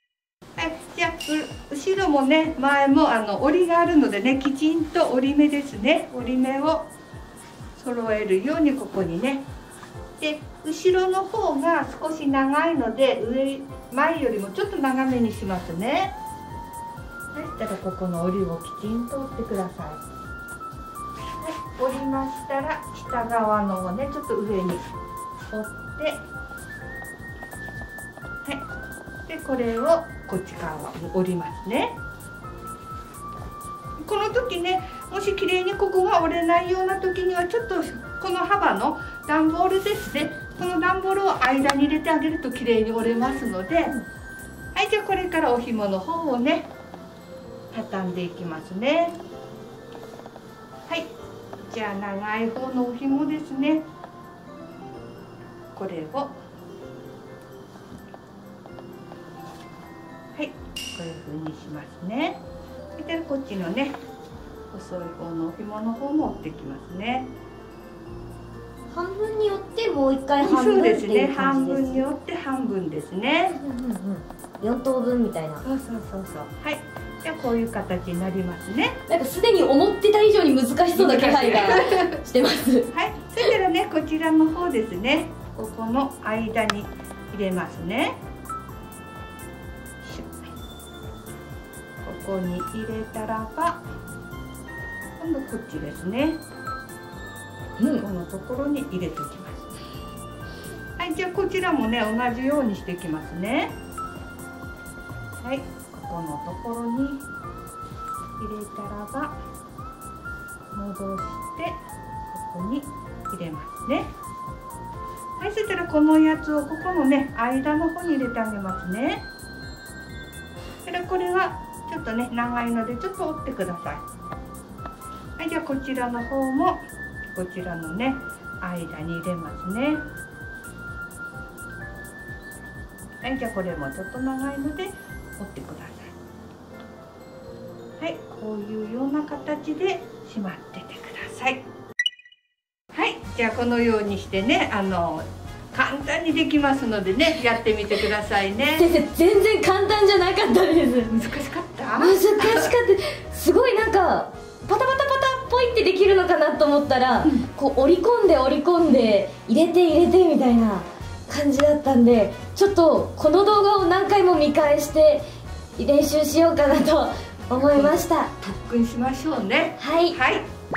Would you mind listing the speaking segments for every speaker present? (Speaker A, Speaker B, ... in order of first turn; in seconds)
Speaker A: 0.6-6.9, 7.8-9.5, 10.2-16.2, 17.3-20.0, 21.4-24.9, 25.5-26.2, 29.3-32.0, 34.0-44.0, 44.7-46.7, 47.7-49.2, 51.6-53.9, 55.7-56.4, 60.4-62.4, 63.0-64.0, 64.7-67.3, 70.4-73.6, 75.6-79.0, 80.9-82.2, 82.9-88.2, 90.0-90.5, 92.0-93.8, 95.2-96.4, 98.0-99.6, 101.0-103.8, 105.4-107.2, 108.4-109.4, 110.7-111.8, 112.3-114.1, 115.4-119.3, 120.8-124.0, 125.4-130.0, 133.2-136.1, 138.0-141.6, 142.9-148.9, 151.1-152.7, 167.6-170.5
Speaker B: 68.9-72.1, 73.5-75.6, 79.1-82.9, 97.8-98.0, 148.8-151.2, 152.0-165.2, 165.8-168.4, 169.8-170.2